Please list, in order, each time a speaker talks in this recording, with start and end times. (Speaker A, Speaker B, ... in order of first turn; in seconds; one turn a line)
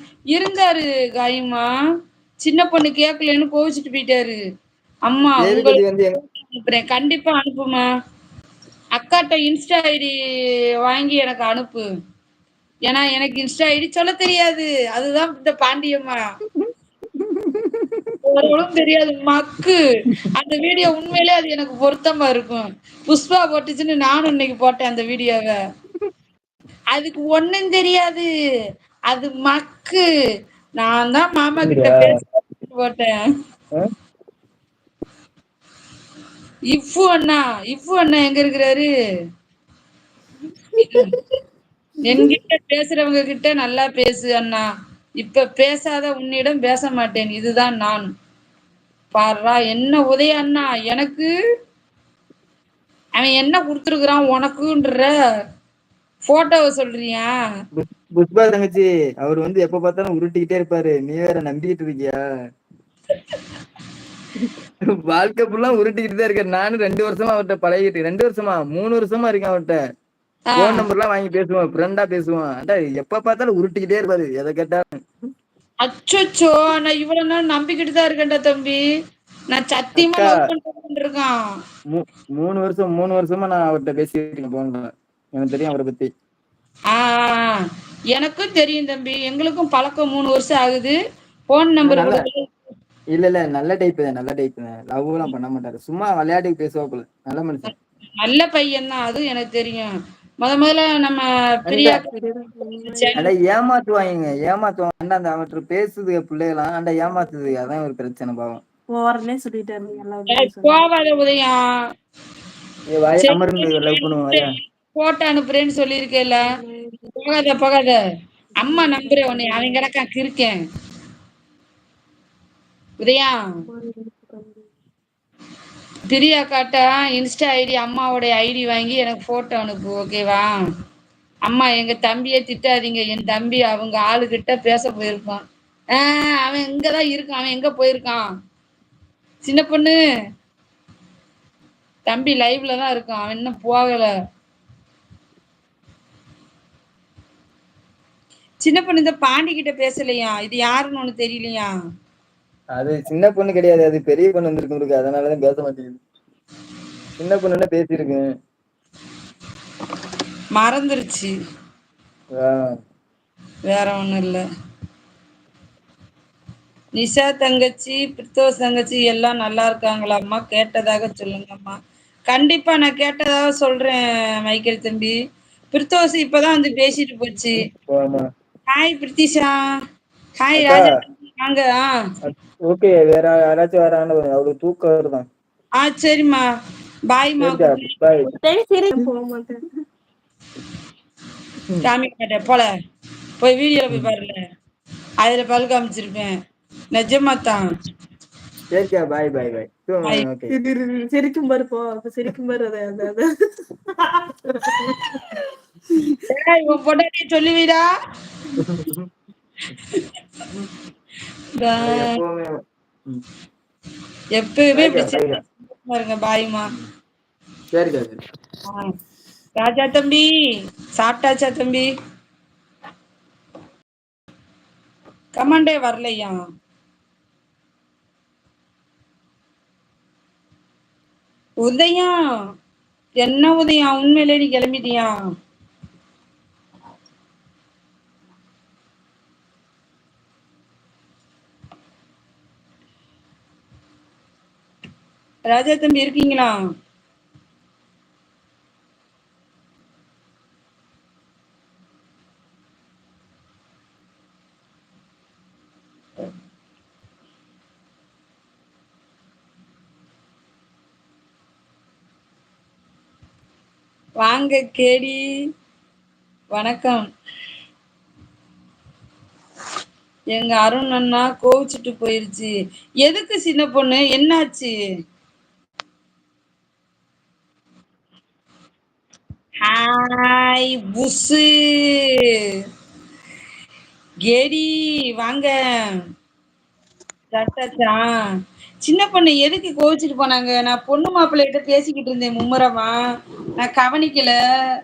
Speaker A: 0.3-1.7
Speaker A: 2.4-4.4
Speaker A: 5.1-7.9
Speaker B: 5.4-6.2
Speaker A: 9.0-10.1
Speaker A: 10.8-11.8
Speaker A: 12.9-16.2
Speaker B: 16.6-18.6
Speaker A: 18.2-19.8
Speaker A: 20.3-25.6
Speaker A: 26.9-28.2
Speaker A: 29.1-30.0
Speaker A: 30.8-33.1
Speaker B: 31.6-32.2
Speaker A: 36.7-38.9
Speaker A: 40.8-41.1
Speaker A: 42.0-44.6
Speaker A: 45.2-48.1
Speaker A: 49.1-51.3
Speaker A: 53.2-55.1
Speaker A: 56.2-57.3
Speaker B: 57.7-62.2
Speaker B: 65.1-69.8
Speaker A: 70.5-70.8
Speaker B: 70.6-74.9
Speaker A: 75.8-78.8
Speaker A: 79.5-81.3
Speaker B: 80.0-80.3
Speaker B: 81.9-86.1
Speaker A: 86.9-87.6
Speaker A: 88.2-91.0
Speaker A: 91.5-92.5
Speaker B: 91.8-92.2
Speaker B: 93.1-97.7
Speaker A: 98.2-99.9
Speaker A: 100.4-102.1
Speaker B: 101.7-102.0
Speaker C: 102.1-103.3
Speaker A: 102.8-103.3
Speaker B: 103.1-108.6
Speaker C: 108.9-110.8
Speaker A: 110.3-111.6
Speaker B: 112.9-114.5
Speaker A: 113.2-114.4
Speaker A: 114.9-116.4
Speaker C: 116.5-117.0
Speaker A: 117.1-117.9
Speaker A: 118.6-120.5
Speaker C: 118.6-119.8
Speaker A: 123.0-123.4
Speaker C: 123.6-124.7
Speaker A: 126.1-130.5
Speaker A: 131.4-135.4
Speaker A: 135.9-138.2
Speaker A: 139.4-140.0
Speaker A: 142.1-144.1
Speaker A: 148.6-151.7
Speaker B: 152.8-156.0
Speaker B: 157.2-158.2
Speaker A: 160.6-161.3
Speaker A: 163.7-164.4
Speaker A: 167.0-171.8
Speaker A: 172.3-175.2
Speaker A: 175.7-177.7
Speaker B: 177.7-178.2
Speaker A: 178.7-179.6
Speaker A: 180.4-181.9
Speaker B: 180.6-180.8
Speaker B: 182.2-185.2
Speaker A: 185.8-186.4
Speaker A: 187.1-187.9
Speaker B: 187.4-188.3
Speaker C: 188.2-189.6
Speaker A: 191.8-192.7
Speaker A: 193.4-194.3
Speaker A: 195.2-196.3
Speaker A: 196.9-197.6
Speaker B: 198.7-200.5
Speaker C: 200.5-203.3
Speaker C: 204.0-205.4
Speaker A: 206.3-207.9
Speaker B: 208.6-209.1
Speaker A: 211.6-212.1
Speaker B: 211.8-212.5
Speaker A: 214.4-216.7
Speaker B: 214.7-215.4
Speaker B: 217.7-218.2
Speaker A: 219.6-220.3
Speaker A: 221.0-221.9
Speaker A: 225.4-226.3
Speaker A: 231.6-232.1
Speaker A: 233.2-235.1
Speaker A: 245.5-246.5
Speaker A: 264.2-265.2
Speaker A: 266.5-267.0
Speaker A: 270.3-272.5
Speaker A: 273.0-274.7
Speaker A: 279.6-282.2
Speaker A: 284.3-285.5
Speaker A: 287.3-288.0
Speaker A: 288.8-292.9
Speaker A: 293.6-294.4